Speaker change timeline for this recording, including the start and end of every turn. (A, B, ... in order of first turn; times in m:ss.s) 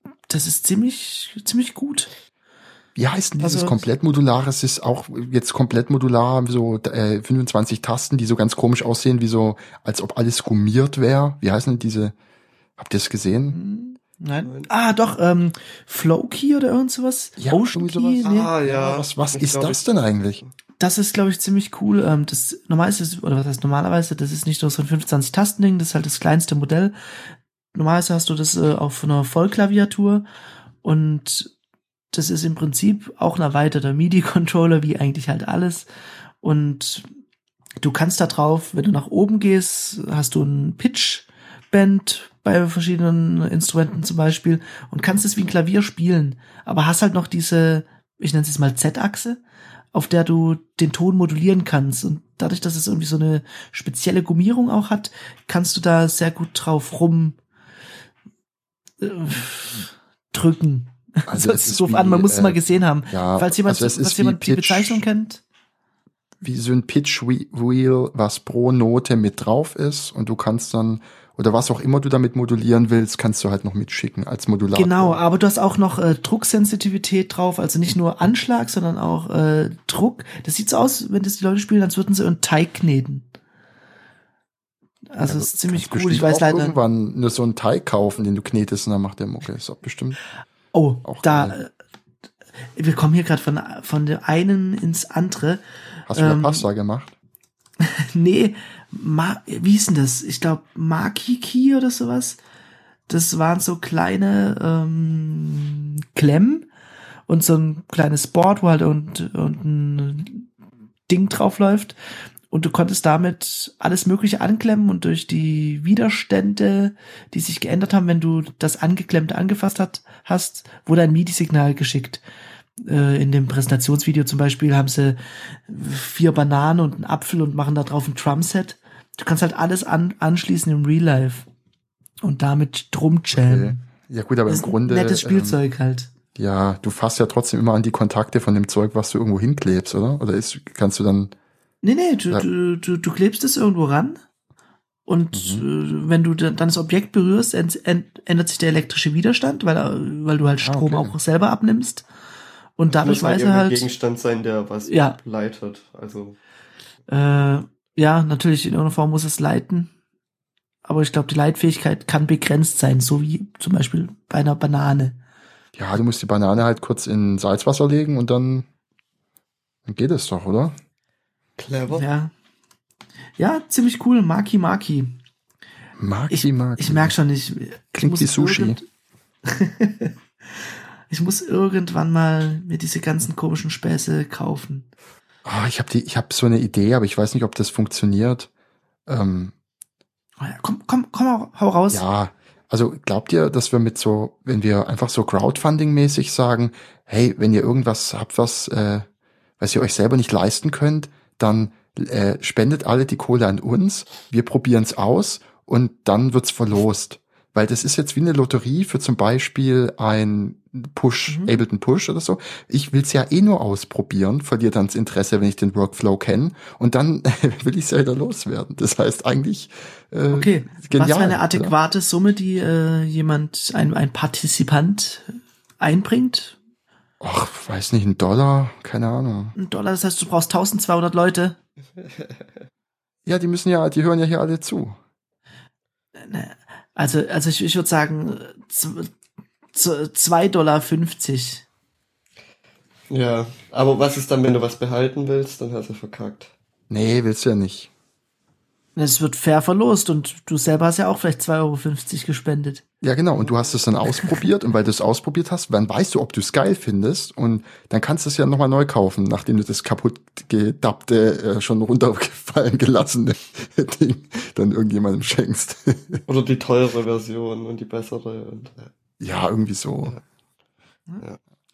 0:00.3-0:02.1 A
0:03.0-0:12.1 B
0:03.4-0:03.8 A
0:12.8-0:13.6 B
0:13.5-0:18.5 A
0:14.4-0:14.7 C
0:17.4-0:20.4 B
0:18.2-0:19.8 C
0:20.8-0:26.9 A
0:27.7-0:30.2 A
0:30.8-0:31.5 A
0:32.1-0:35.8 A
0:36.4-0:37.0 A
0:37.8-0:49.4 A
0:49.9-0:57.4 A
0:59.0-1:05.4 A
1:01.3-1:02.6 B
1:03.1-1:05.0 B
1:06.4-1:15.2 B
1:14.7-1:23.2 A
1:25.1-1:26.8 A
1:25.2-1:30.2 B
1:30.7-1:31.7 A
1:31.0-1:31.6 B
1:32.8-1:36.6 A
1:36.1-1:37.1 B
1:37.8-1:42.4 A
1:43.1-1:46.7 A
1:47.3-1:50.5 A
1:51.1-1:52.0 A
1:52.5-2:02.2 A
2:02.8-2:11.4 A
2:12.2-2:13.8 A
2:13.3-2:15.6 B
2:14.5-2:16.1 A
2:16.4-2:21.3 B
2:21.8-2:24.2 A
2:25.1-2:32.0 A
2:25.3-2:25.6 B
2:30.6-2:31.1 B
2:32.8-2:33.8 A
2:32.9-2:36.4 C
2:34.9-2:35.2 A
2:37.1-2:39.9 A
2:40.8-2:45.2 A
2:45.7-2:48.6 B
2:49.8-2:50.7 B
2:51.6-2:52.0 C
2:51.9-2:52.3 A
2:53.4-2:55.2 A
2:56.0-2:57.1 B
2:56.3-2:58.8 A
2:57.9-2:58.8 B
2:59.4-3:00.1 A
3:01.1-3:04.8 A
3:05.4-3:08.5 B
3:09.1-3:09.5 B
3:10.4-3:12.0 A
3:11.9-3:19.0 B
3:19.6-3:41.7 B
3:31.3-3:31.6 A
3:40.3-3:46.6 A
3:47.2-3:49.5 B
3:49.6-3:51.6 A
3:53.2-3:55.0 B
3:56.2-3:59.1 A
3:59.7-4:01.6 A
4:03.1-4:06.5 C
4:06.9-4:07.9 B
4:09.0-4:12.8 A
4:13.0-4:26.2 B
4:14.1-4:14.3 A
4:26.3-4:28.9 C
4:29.2-4:30.2 B